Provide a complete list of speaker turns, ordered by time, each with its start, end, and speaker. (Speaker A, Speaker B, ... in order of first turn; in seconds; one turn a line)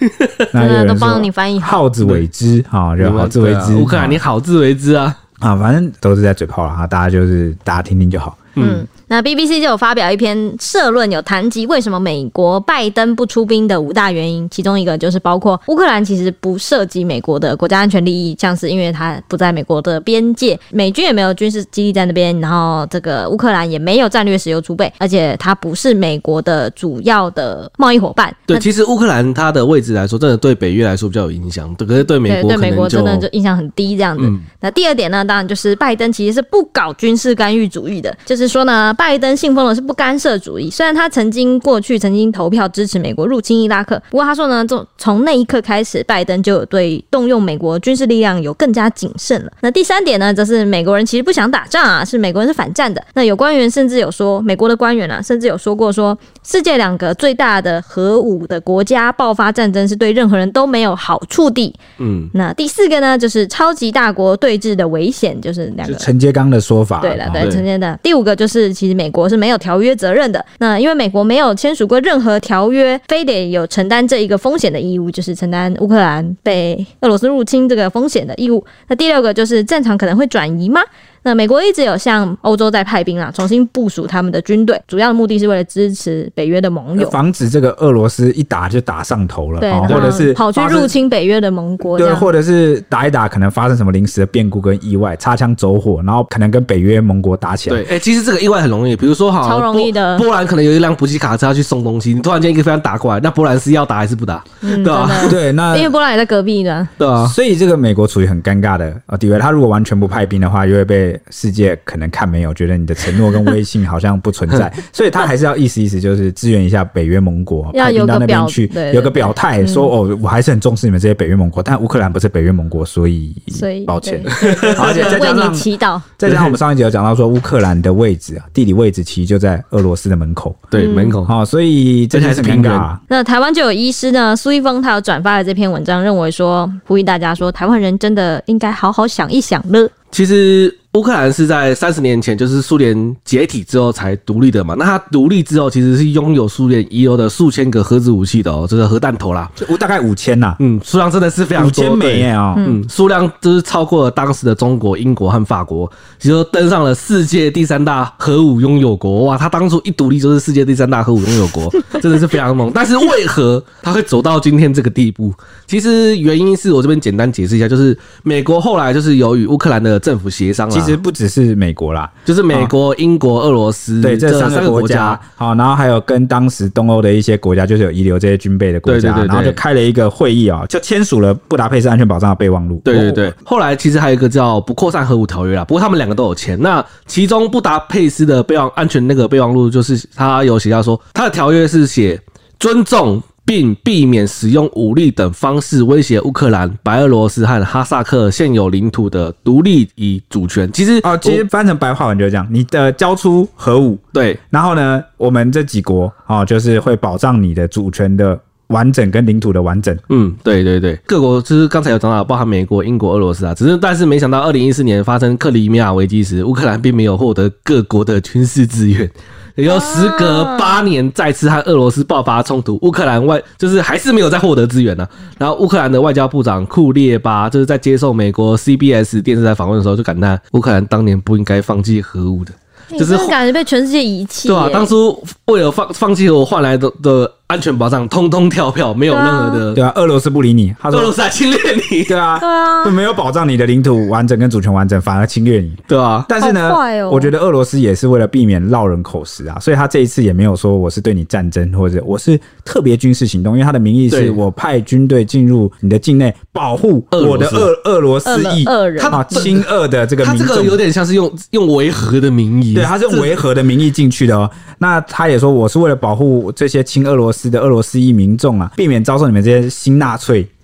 Speaker A: 0.5-4.2
Speaker B: 0.5-1.8
Speaker C: 3.0-5.2
Speaker A: 5.4-8.5
Speaker C: 8.6-8.8
Speaker B: 8.6-28.6
Speaker C: 28.5-33.2
Speaker B: 32.2-61.8
Speaker C: 34.2-34.4
Speaker C: 62.0-62.3
Speaker B: 62.3-66.1
Speaker A: 65.8-67.5
Speaker B: 67.0-87.2
Speaker C: 67.4-67.6
Speaker A: 87.0-90.9
Speaker B: 89.6-92.3
Speaker C: 89.9-90.2
Speaker A: 91.9-97.8
Speaker C: 97.7-105.4
Speaker B: 99.4-100.2
Speaker B: 104.6-106.9
Speaker A: 105.2-105.9
Speaker C: 107.0-107.3
Speaker A: 107.2-125.7
Speaker B: 117.7-119.9
Speaker B: 123.5-126.1
Speaker C: 124.3-125.2
Speaker A: 126.2-130.7
Speaker C: 126.2-126.6
Speaker C: 130.7-131.3
Speaker B: 130.7-131.1
Speaker A: 131.2-133.0
Speaker C: 132.1-132.9
Speaker B: 133.1-139.9
Speaker C: 140.1-149.5
Speaker A: 149.6-150.6
Speaker C: 150.6-171.0
Speaker A: 151.6-152.6
Speaker B: 152.6-152.8
Speaker A: 170.7-172.7
Speaker C: 172.2-175.2
Speaker A: 174.0-183.3
Speaker C: 178.8-179.6
Speaker C: 182.8-201.4
Speaker A: 201.0-210.0
Speaker C: 204.1-204.4
Speaker C: 210.1-233.3
Speaker B: 219.7-220.8
Speaker B: 232.9-234.9
Speaker C: 234.5-239.8
Speaker B: 239.1-239.6
Speaker A: 239.7-241.1
Speaker C: 240.9-242.2
Speaker A: 242.1-260.8
Speaker B: 242.4-242.9
Speaker C: 245.9-246.3
Speaker B: 246.4-247.3
Speaker C: 254.1-254.4
Speaker C: 257.1-257.7
Speaker B: 258.2-259.5
Speaker C: 259.0-259.7
Speaker C: 260.2-263.4
Speaker A: 262.7-270.5